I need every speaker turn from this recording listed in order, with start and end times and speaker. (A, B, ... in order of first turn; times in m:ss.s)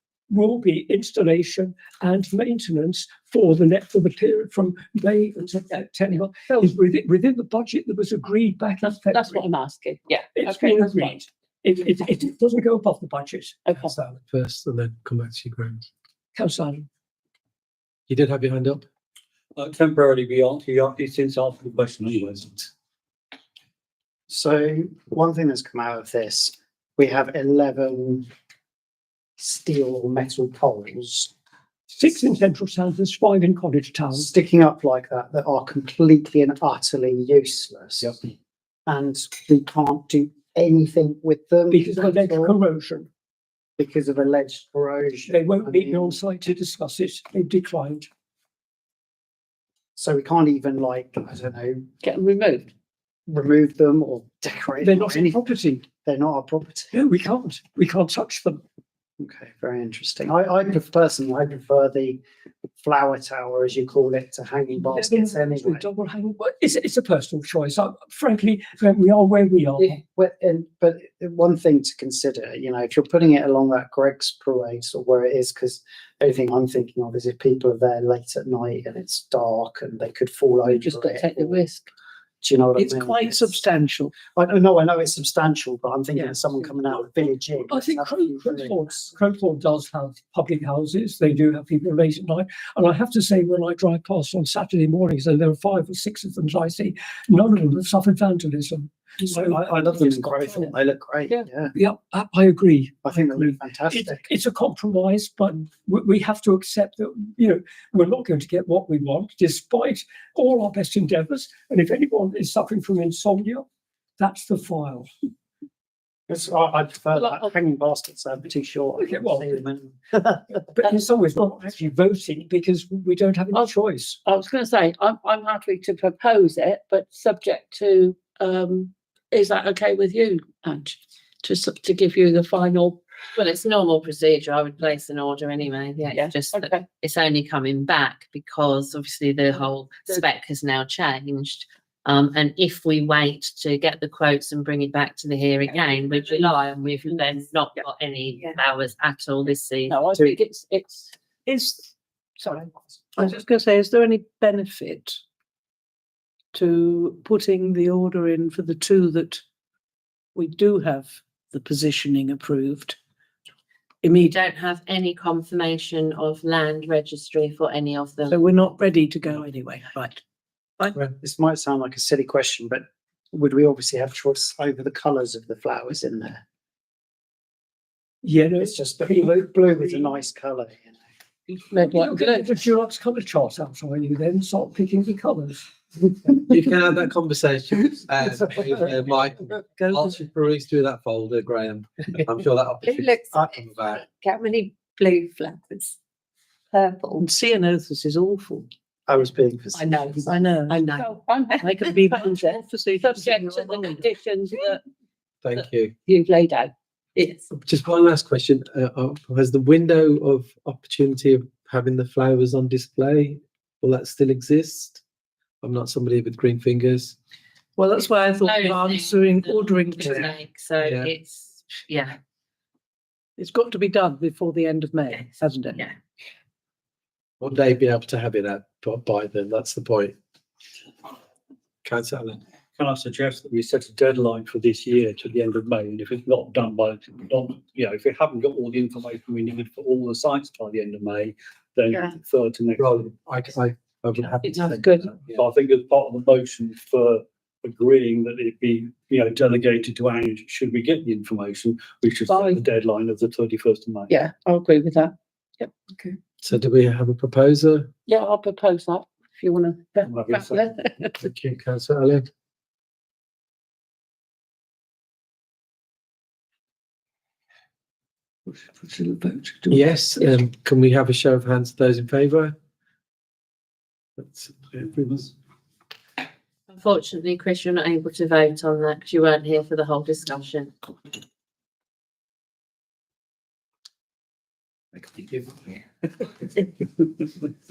0:00.3-0:09.5 A
0:09.1-0:11.2 B
0:10.3-0:14.0 A
0:13.7-0:13.9 B
0:14.1-0:15.8 C
0:16.3-0:16.9 A
0:18.1-0:18.8 C
0:19.6-0:22.7 D
0:24.3-0:28.3 E
0:29.4-0:31.3 E
0:31.9-0:34.3 A
0:34.1-0:38.3 E
0:38.9-0:42.6 E
0:41.7-0:43.1 A
0:43.8-0:46.2 E
0:45.3-0:48.1 A
0:50.0-0:51.8 E
0:52.0-0:52.7 B
0:53.3-0:56.9 E
0:54.8-0:55.8 A
0:56.9-0:58.6 A
0:59.2-1:02.2 E
1:02.8-1:05.8 E
1:04.8-1:10.0 A
1:09.8-1:21.6 E
1:20.6-1:21.9 B
1:22.4-1:23.5 E
1:22.8-1:24.2 F
1:24.3-1:29.1 E
1:27.7-1:40.7 A
1:39.3-1:41.7 E
1:41.7-1:53.6 A
1:43.0-1:44.2 E
1:54.2-1:55.1 A
1:56.3-2:00.7 E
1:57.1-1:57.5 B
1:59.0-1:59.6 A
2:00.7-2:04.2 A
2:04.2-2:13.0 B
2:13.4-2:30.3 G
2:16.1-2:16.8 B
2:25.7-2:26.5 B
2:29.9-2:31.1 B
2:31.4-2:35.2 F
2:36.5-2:39.4 F
2:40.3-2:43.0 F
2:44.0-2:44.4 F
2:44.2-2:48.3 G
2:48.2-2:50.2 F
2:51.2-2:56.4 E
2:58.2-3:00.1 A
2:58.6-3:01.0 E
3:01.5-3:02.5 B
3:01.8-3:05.6 A
3:06.4-3:14.0 C
3:09.8-3:10.1 F
3:12.8-3:13.6 H
3:14.1-3:15.9 H
3:16.7-3:17.2 H
3:17.2-3:18.7 F
3:19.1-3:20.3 E
3:20.2-3:20.9 F
3:20.7-3:24.8 B
3:21.6-3:24.0 F
3:25.4-3:25.9 C
3:25.6-3:27.3 B
3:27.5-3:35.0 C
3:35.6-3:37.2 C
3:37.8-3:40.3 F
3:38.4-3:42.2 G
3:40.8-3:41.1 C
3:43.4-3:45.8 F
3:47.4-3:50.2 C
3:51.8-3:52.4 C
3:52.8-4:03.1 D
4:02.8-4:05.3 C
4:04.4-4:05.2 B
4:05.3-4:14.1 D
4:12.3-4:12.6 B
4:14.1-4:16.2 B
4:16.4-4:17.9 C
4:18.1-4:21.2 B
4:20.0-4:20.7 D
4:21.2-4:22.3 C
4:28.5-4:30.3 A
4:29.7-4:32.5 C
4:34.2-4:34.8 C
4:36.7-4:40.7 G